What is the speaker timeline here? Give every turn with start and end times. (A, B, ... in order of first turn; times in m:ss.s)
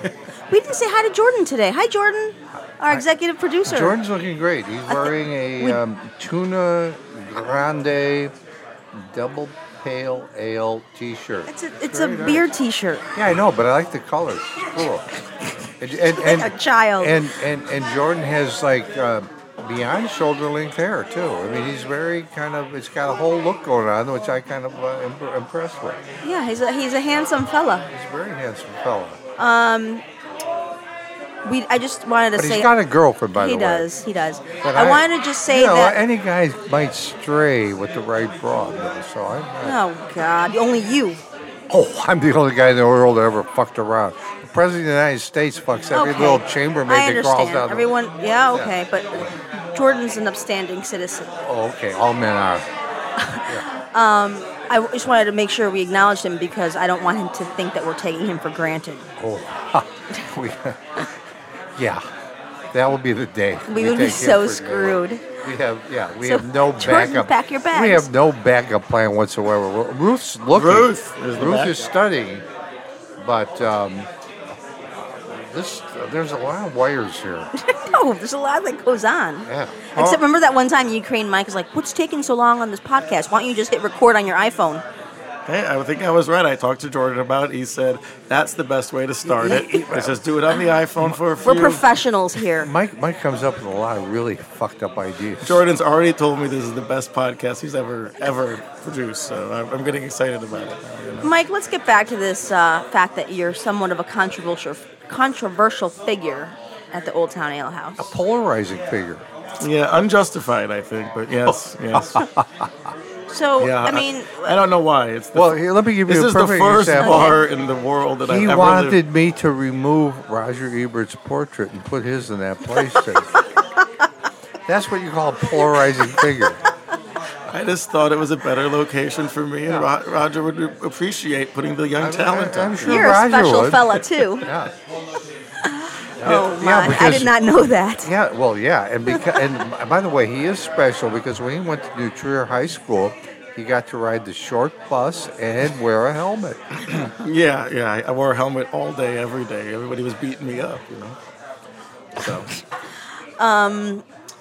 0:00.5-0:04.0 A
0:03.7-0:08.3 B
0:04.9-0:05.8 A
0:08.9-0:12.5 B
0:11.5-0:13.0 A
0:13.1-0:15.1 B
0:15.8-0:26.0 B
0:16.1-0:17.2 A
0:26.2-0:27.9 A
0:27.9-0:29.2 B
0:29.4-0:30.0 A
0:31.4-0:32.7 A
0:32.4-0:33.9 B
0:33.3-0:36.0 A
0:34.6-0:39.8 B
0:39.6-0:41.2 A
0:41.7-0:47.9 B
0:45.9-0:51.3 A
0:51.4-0:52.7 B
0:53.2-0:59.1 A
0:59.2-1:01.1 B
1:01.8-1:02.1 B
1:02.7-1:12.4 B
1:03.7-1:05.2 A
1:06.2-1:08.1 A
1:10.5-1:11.8 C
1:13.2-1:14.1 B
1:15.2-1:17.5 B
1:17.6-1:24.8 A
1:19.5-1:19.9 B
1:20.0-1:20.2 C
1:25.5-1:31.8 C
1:29.3-1:30.2 B
1:31.4-1:32.7 A
1:32.6-1:35.6 B
1:35.4-1:41.3 C
1:41.2-1:48.0 A
1:48.0-1:49.2 B
1:49.6-1:52.2 C
1:51.9-1:52.7 B
1:53.3-1:54.5 A
1:53.6-1:59.0 C
1:55.4-1:57.4 B
1:57.0-1:57.4 A
1:58.3-2:03.3 B
2:04.7-2:06.6 B
2:05.7-2:06.3 A
2:07.5-2:13.2 C
2:12.0-2:14.7 B
2:12.8-2:14.5 A
2:15.6-2:18.1 A
2:16.2-2:17.3 B
2:18.0-2:26.8 B
2:26.9-2:31.2 C
2:32.2-2:32.5 C
2:33.4-2:34.0 A